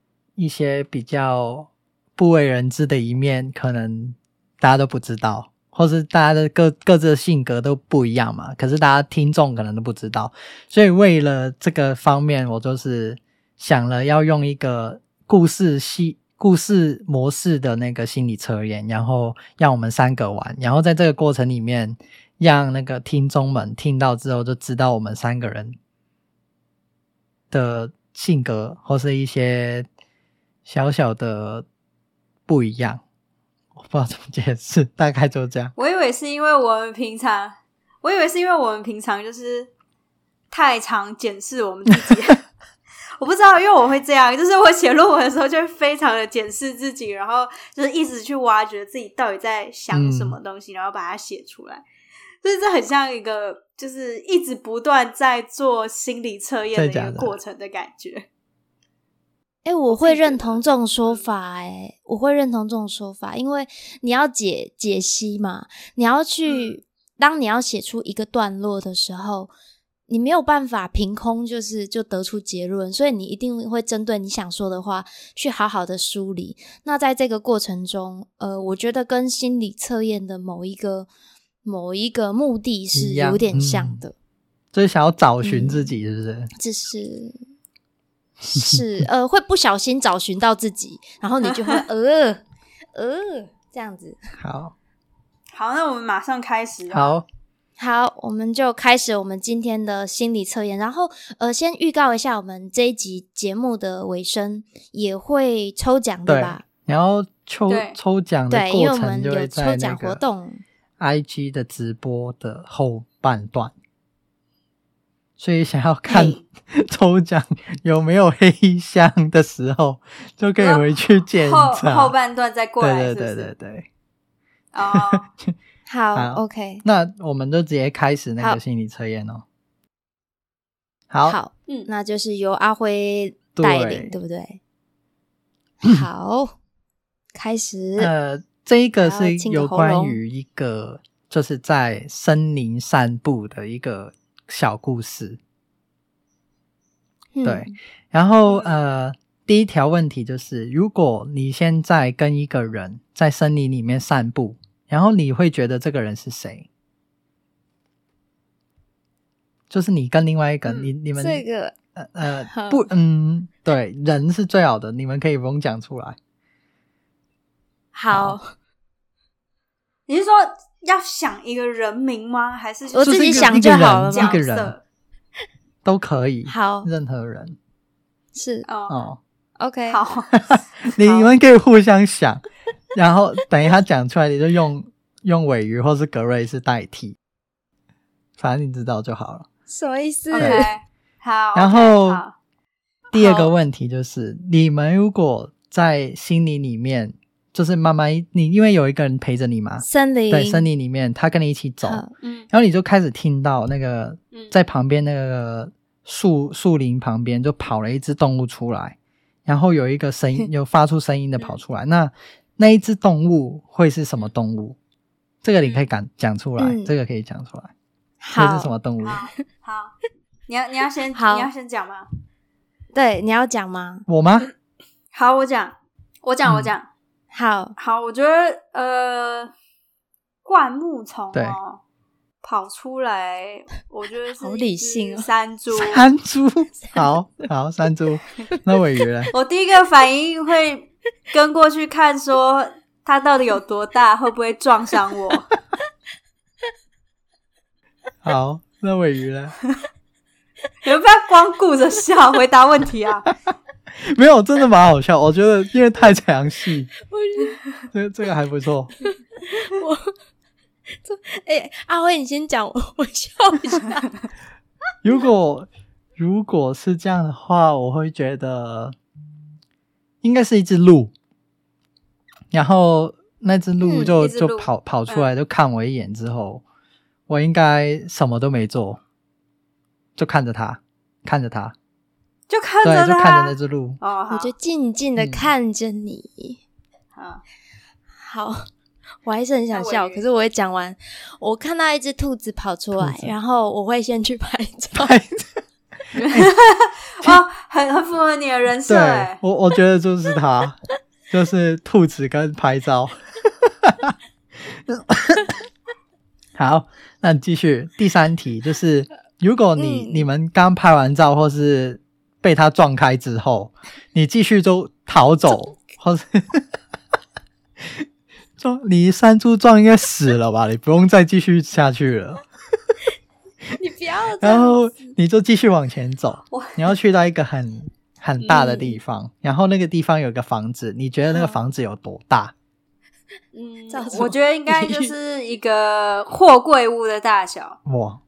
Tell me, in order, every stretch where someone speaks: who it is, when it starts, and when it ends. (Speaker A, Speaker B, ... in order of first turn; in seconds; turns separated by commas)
Speaker A: 0.4-25.8, Speaker A: 27.5-29.9, Speaker A: 30.6-31.6, Speaker A: 32.5-33.0, Speaker A: 33.8-35.7, Speaker B: 35.8-39.7, Speaker B: 40.5-42.4, Speaker B: 43.2-51.8, Speaker A: 49.9-50.4, Speaker B: 52.4-58.2, Speaker A: 56.7-57.4, Speaker C: 59.6-69.5, Speaker B: 59.9-61.3, Speaker B: 66.4-66.8, Speaker C: 70.1-81.1, Speaker C: 81.6-84.1, Speaker A: 82.9-84.0, Speaker A: 84.7-86.5, Speaker C: 85.4-85.9, Speaker C: 86.6-87.3, Speaker C: 88.4-92.4, Speaker A: 88.5-88.8, Speaker C: 92.9-94.2, Speaker A: 94.4-94.7, Speaker B: 95.5-97.2, Speaker A: 96.9-97.2, Speaker C: 97.8-106.6, Speaker A: 106.2-110.2, Speaker B: 107.7-108.0, Speaker C: 108.5-110.6, Speaker A: 111.0-113.7, Speaker A: 115.4-122.1, Speaker B: 116.1-116.4, Speaker B: 120.6-123.5, Speaker A: 122.8-123.9, Speaker B: 124.7-125.3, Speaker A: 124.9-125.5, Speaker C: 125.9-126.8, Speaker A: 126.1-129.4, Speaker A: 131.1-131.4, Speaker C: 131.3-134.6, Speaker A: 133.6-134.1, Speaker C: 135.8-136.5, Speaker C: 137.3-138.1, Speaker A: 138.0-145.4, Speaker C: 139.0-140.2, Speaker C: 147.4-147.7, Speaker A: 147.4-156.7, Speaker B: 148.4-148.8, Speaker A: 159.7-161.4, Speaker C: 161.2-161.7, Speaker A: 161.9-166.2, Speaker C: 162.5-162.8, Speaker C: 167.9-168.5, Speaker A: 168.1-168.4, Speaker B: 170.1-174.8, Speaker C: 172.9-174.4, Speaker A: 173.0-174.7, Speaker A: 175.8-177.6, Speaker C: 176.5-176.9, Speaker C: 178.3-178.7, Speaker B: 178.7-179.0, Speaker A: 178.9-179.2, Speaker C: 179.6-180.0, Speaker B: 179.9-181.3, Speaker A: 180.3-182.4, Speaker A: 182.9-187.2, Speaker A: 188.4-189.4, Speaker C: 189.7-190.7, Speaker B: 190.3-192.3, Speaker A: 190.4-190.7, Speaker A: 191.5-192.2, Speaker A: 193.1-214.8, Speaker C: 193.1-193.5, Speaker C: 199.8-200.7, Speaker C: 201.8-202.1, Speaker B: 202.2-202.5, Speaker A: 215.4-217.7, Speaker B: 215.6-215.9, Speaker C: 216.6-216.9, Speaker C: 218.2-218.7, Speaker A: 218.3-219.3, Speaker B: 219.0-219.9, Speaker B: 220.5-222.1, Speaker C: 221.1-221.5, Speaker C: 222.9-224.1, Speaker A: 224.1-224.5, Speaker B: 225.1-226.9, Speaker A: 226.4-226.7, Speaker C: 227.3-227.7, Speaker B: 227.8-229.5, Speaker B: 230.4-231.8, Speaker A: 231.3-231.6, Speaker B: 232.4-236.0, Speaker C: 234.4-235.3, Speaker A: 235.7-239.3, Speaker C: 236.8-237.5, Speaker B: 239.3-245.5, Speaker A: 248.2-249.6, Speaker B: 250.8-253.3, Speaker A: 254.0-256.9, Speaker C: 257.0-257.6, Speaker A: 257.9-258.9, Speaker C: 259.0-260.1, Speaker C: 261.0-264.1, Speaker A: 265.0-268.9, Speaker A: 270.2-271.1, Speaker A: 272.5-276.6, Speaker C: 273.8-274.1, Speaker B: 274.1-275.3, Speaker A: 277.3-279.0, Speaker A: 280.2-281.7, Speaker B: 282.5-284.5, Speaker A: 282.8-284.0, Speaker C: 284.3-286.6, Speaker A: 285.2-285.5, Speaker B: 287.1-287.4, Speaker C: 288.2-288.7, Speaker C: 289.2-295.1, Speaker B: 289.7-290.2, Speaker A: 292.9-293.3, Speaker A: 295.0-295.6, Speaker B: 296.1-299.4, Speaker A: 298.9-300.8, Speaker A: 301.3-305.5, Speaker A: 306.6-316.7, Speaker C: 309.8-310.3, Speaker A: 317.8-318.1, Speaker A: 318.6-322.4, Speaker C: 323.8-324.8, Speaker A: 324.4-332.5, Speaker B: 326.5-326.9, Speaker B: 328.4-328.9, Speaker C: 328.5-328.8, Speaker C: 331.3-331.6, Speaker B: 333.5-337.8, Speaker C: 333.9-335.1, Speaker A: 337.9-338.2